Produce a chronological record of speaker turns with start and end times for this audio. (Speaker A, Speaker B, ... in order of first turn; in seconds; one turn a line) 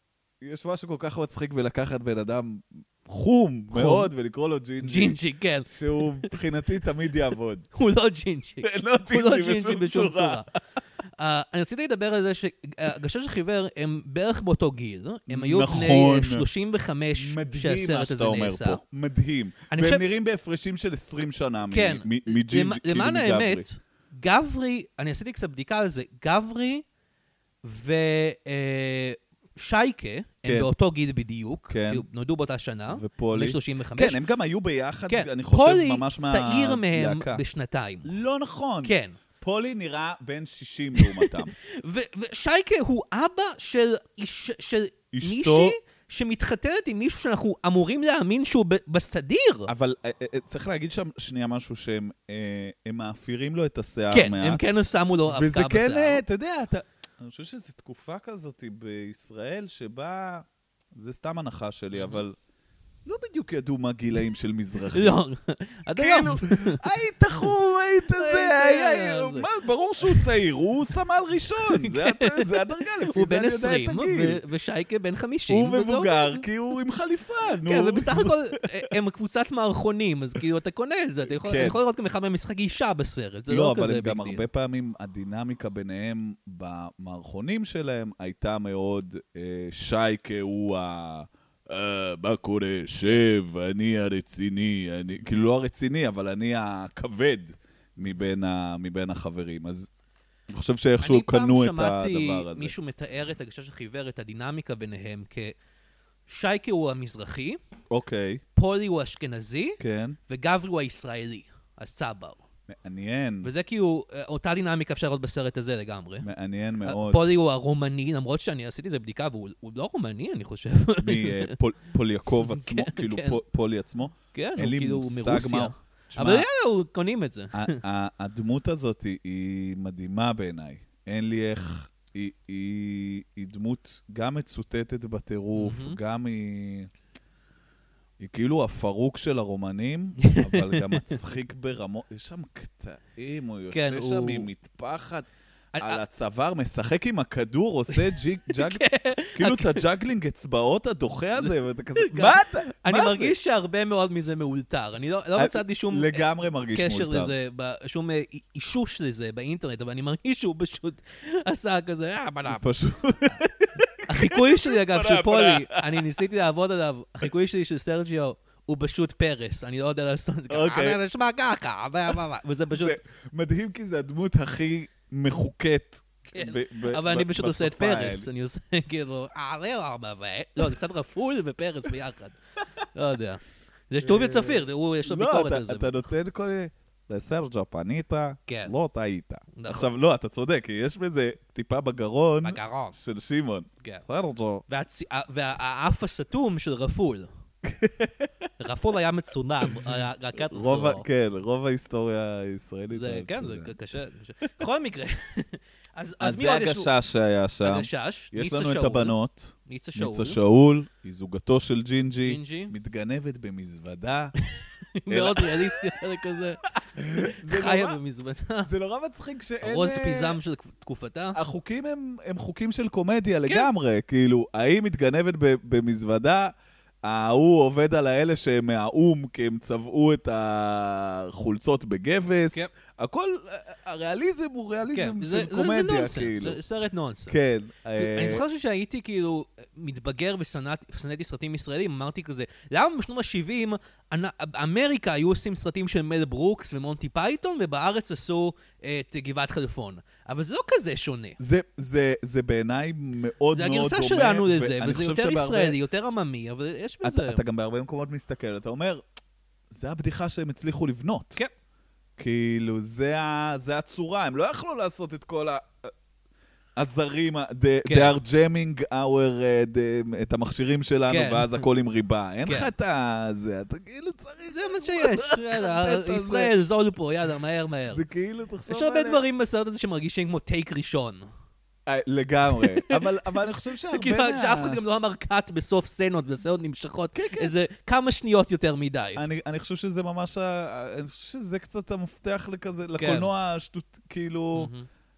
Speaker A: 0.4-7.7
Speaker B: 3.7-4.1
Speaker B: 4.8-6.3
Speaker B: 7.7-10.5
Speaker A: 8.6-10.4
Speaker B: 11.2-18.8
Speaker A: 15.3-16.4
Speaker A: 17.1-23.6
Speaker B: 19.7-20.0
Speaker B: 21.7-26.8
Speaker B: 27.6-34.2
Speaker A: 30.4-30.7
Speaker A: 31.7-32.0
Speaker A: 32.9-37.4
Speaker B: 35.1-38.1
Speaker A: 38.0-41.5
Speaker B: 38.8-39.1
Speaker B: 41.0-49.7
Speaker A: 45.1-45.8
Speaker A: 49.7-62.3
Speaker B: 54.1-56.2
Speaker B: 61.9-62.2
Speaker A: 63.0-65.2
Speaker B: 64.9-66.8
Speaker A: 66.0-74.4
Speaker B: 68.1-69.5
Speaker B: 70.0-70.3
Speaker B: 71.6-76.5
Speaker A: 75.5-78.4
Speaker B: 77.6-84.4
Speaker A: 81.3-81.8
Speaker A: 83.5-99.9
Speaker A: 100.5-102.7
Speaker B: 101.0-105.5
Speaker B: 106.3-107.6
Speaker A: 107.9-108.4
Speaker B: 108.5-112.4
Speaker A: 109.8-110.2
Speaker A: 112.7-113.5
Speaker B: 113.4-116.3
Speaker A: 116.2-117.3
Speaker B: 116.8-121.5
Speaker A: 121.0-126.5
Speaker B: 122.5-123.4
Speaker B: 124.3-127.8
Speaker A: 127.5-136.9
Speaker B: 135.5-136.0
Speaker A: 138.2-145.3
Speaker B: 140.2-141.2
Speaker B: 143.7-144.5
Speaker B: 145.7-146.0
Speaker A: 145.8-153.3
Speaker B: 147.9-149.8
Speaker B: 151.4-162.7
Speaker A: 155.3-157.3
Speaker A: 162.5-166.1
Speaker B: 164.1-173.0
Speaker A: 170.5-171.0
Speaker A: 172.1-178.3
Speaker B: 176.3-182.3
Speaker B: 182.9-186.1
Speaker A: 184.0-194.6
Speaker B: 188.5-188.7
Speaker B: 189.5-189.9
Speaker B: 192.4-193.0
Speaker B: 194.7-197.3
Speaker A: 197.6-198.5
Speaker B: 198.6-201.1
Speaker A: 199.6-203.8
Speaker B: 202.9-206.9
Speaker A: 206.2-214.3
Speaker B: 207.6-210.4
Speaker B: 212.2-212.7
Speaker B: 214.4-218.7
Speaker A: 215.1-216.1
Speaker A: 216.7-218.0
Speaker A: 218.6-220.4
Speaker B: 219.6-221.4
Speaker A: 221.3-226.5
Speaker A: 227.0-236.6
Speaker B: 234.9-237.4
Speaker A: 237.3-238.4
Speaker B: 237.9-251.4
Speaker A: 251.4-255.8
Speaker B: 253.5-257.4
Speaker A: 257.0-259.0
Speaker A: 259.7-261.4
Speaker A: 262.2-265.9
Speaker A: 266.8-276.5
Speaker B: 267.8-268.1
Speaker B: 271.1-271.6
Speaker B: 274.5-278.0
Speaker A: 277.9-279.2
Speaker B: 278.7-281.3
Speaker A: 281.9-284.8
Speaker B: 282.6-289.2
Speaker A: 287.1-287.5
Speaker A: 289.2-294.7
Speaker B: 293.0-293.3
Speaker B: 294.5-294.9